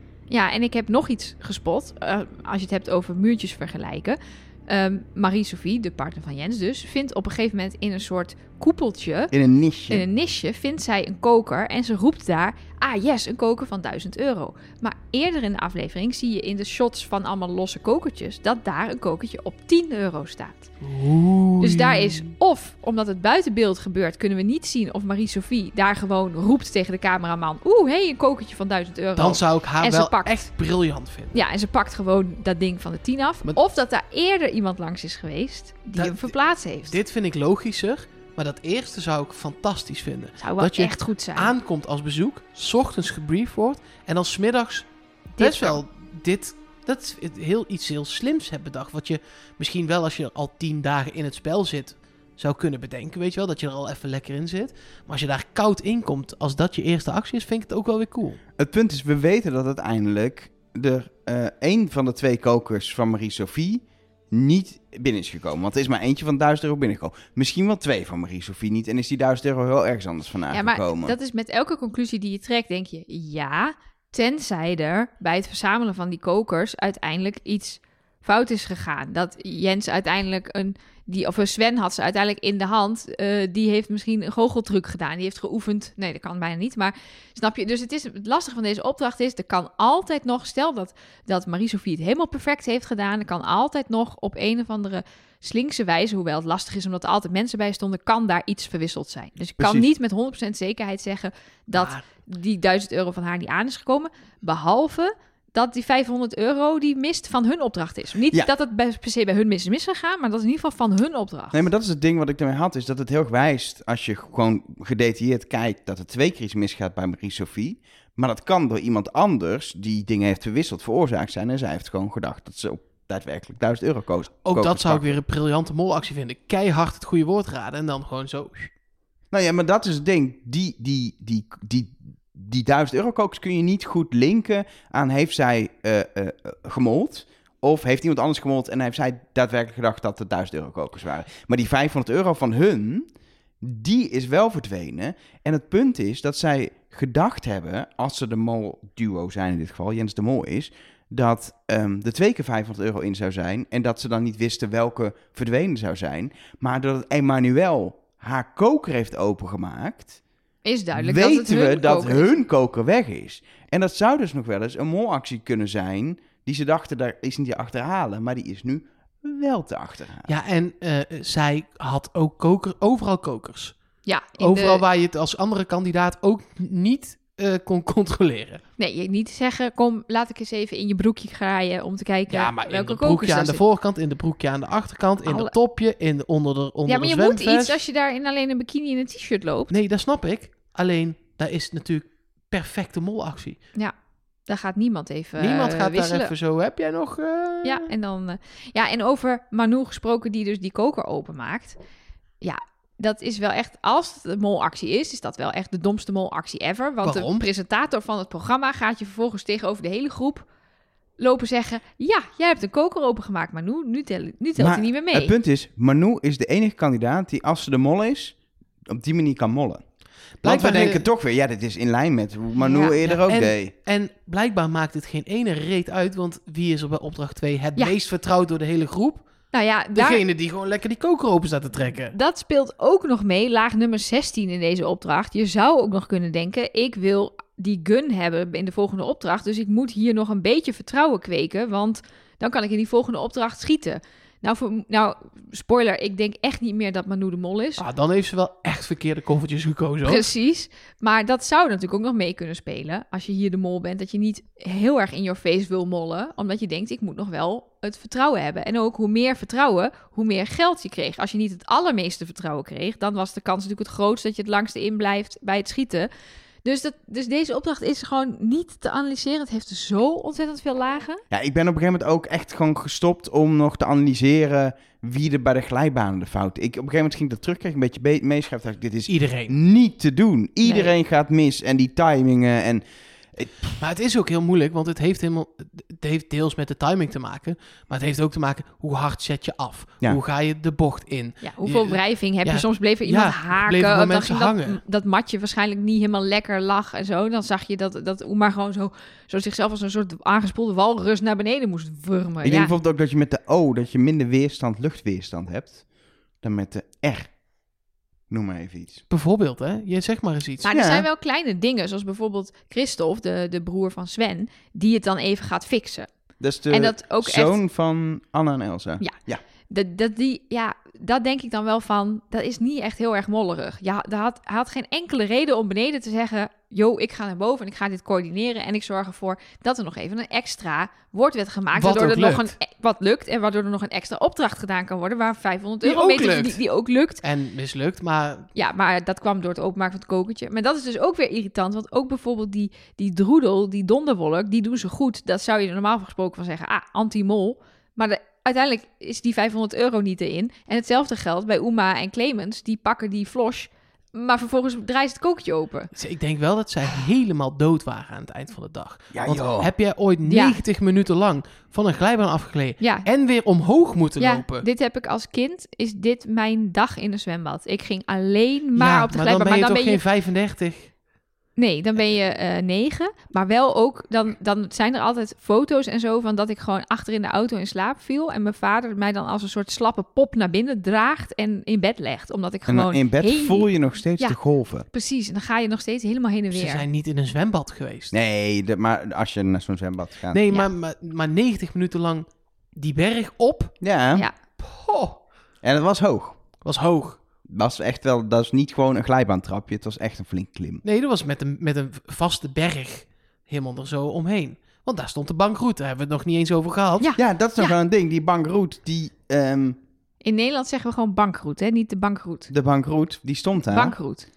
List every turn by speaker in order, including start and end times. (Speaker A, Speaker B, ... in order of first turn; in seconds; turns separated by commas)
Speaker A: 0.3-9.3, Speaker B: 9.3-10.1, Speaker A: 9.9-20.7, Speaker C: 20.8-22.3, Speaker A: 21.6-30.5, Speaker C: 29.2-31.4, Speaker A: 31.3-37.0, Speaker C: 36.0-58.4, Speaker A: 40.4-41.5, Speaker A: 45.4-45.8, Speaker B: 58.6-71.2, Speaker A: 70.5-111.6, Speaker B: 99.6-99.9, Speaker B: 111.5-125.2, Speaker C: 124.5-128.7, Speaker B: 129.3-143.1, Speaker B: 143.6-160.2, Speaker A: 160.6-162.3, Speaker B: 161.0-170.3, Speaker C: 170.3-173.8, Speaker A: 174.1-174.8, Speaker C: 174.4-178.6, Speaker A: 178.8-183.6, Speaker C: 182.3-187.8, Speaker A: 185.2-185.5, Speaker A: 186.9-189.7, Speaker C: 189.7-193.6, Speaker A: 194.5-196.3, Speaker C: 195.4-197.9, Speaker A: 197.6-201.8, Speaker A: 202.4-210.5, Speaker C: 207.0-207.4, Speaker A: 211.2-215.3, Speaker B: 214.6-219.8, Speaker C: 220.4-221.1, Speaker B: 220.4-223.7, Speaker A: 222.6-223.0, Speaker C: 223.0-229.2, Speaker A: 229.5-230.2, Speaker C: 229.9-232.2, Speaker A: 232.1-247.8, Speaker C: 247.8-250.3, Speaker A: 250.1-266.1, Speaker A: 266.6-271.2, Speaker B: 271.3-282.8, Speaker C: 279.1-279.6, Speaker A: 280.6-280.9, Speaker B: 283.4-283.8, Speaker C: 283.8-294.8, Speaker A: 291.4-302.7, Speaker B: 302.4-305.8, Speaker B: 306.4-307.3, Speaker B: 308.3-309.0, Speaker C: 309.1-310.7, Speaker A: 310.6-316.1, Speaker B: 310.7-311.1, Speaker B: 316.4-319.4, Speaker A: 316.7-317.6, Speaker A: 319.7-337.2, Speaker C: 331.7-332.5, Speaker C: 335.8-336.6, Speaker C: 337.2-338.5, Speaker A: 338.6-355.9, Speaker C: 355.9-364.7, Speaker B: 359.1-359.7, Speaker A: 360.3-360.6, Speaker A: 362.8-363.1, Speaker A: 364.2-370.0, Speaker C: 368.8-370.9, Speaker A: 371.6-383.7, Speaker B: 382.7-384.9, Speaker A: 384.9-386.9, Speaker C: 386.5-388.1, Speaker B: 388.1-390.4, Speaker C: 390.3-393.8, Speaker B: 393.8-394.3, Speaker C: 394.6-395.2, Speaker B: 395.6-396.4, Speaker C: 396.6-397.2, Speaker B: 397.5-400.8, Speaker C: 400.8-407.1, Speaker A: 407.0-407.8, Speaker B: 407.2-409.8, Speaker A: 410.2-412.5, Speaker B: 412.5-414.0, Speaker A: 413.6-414.3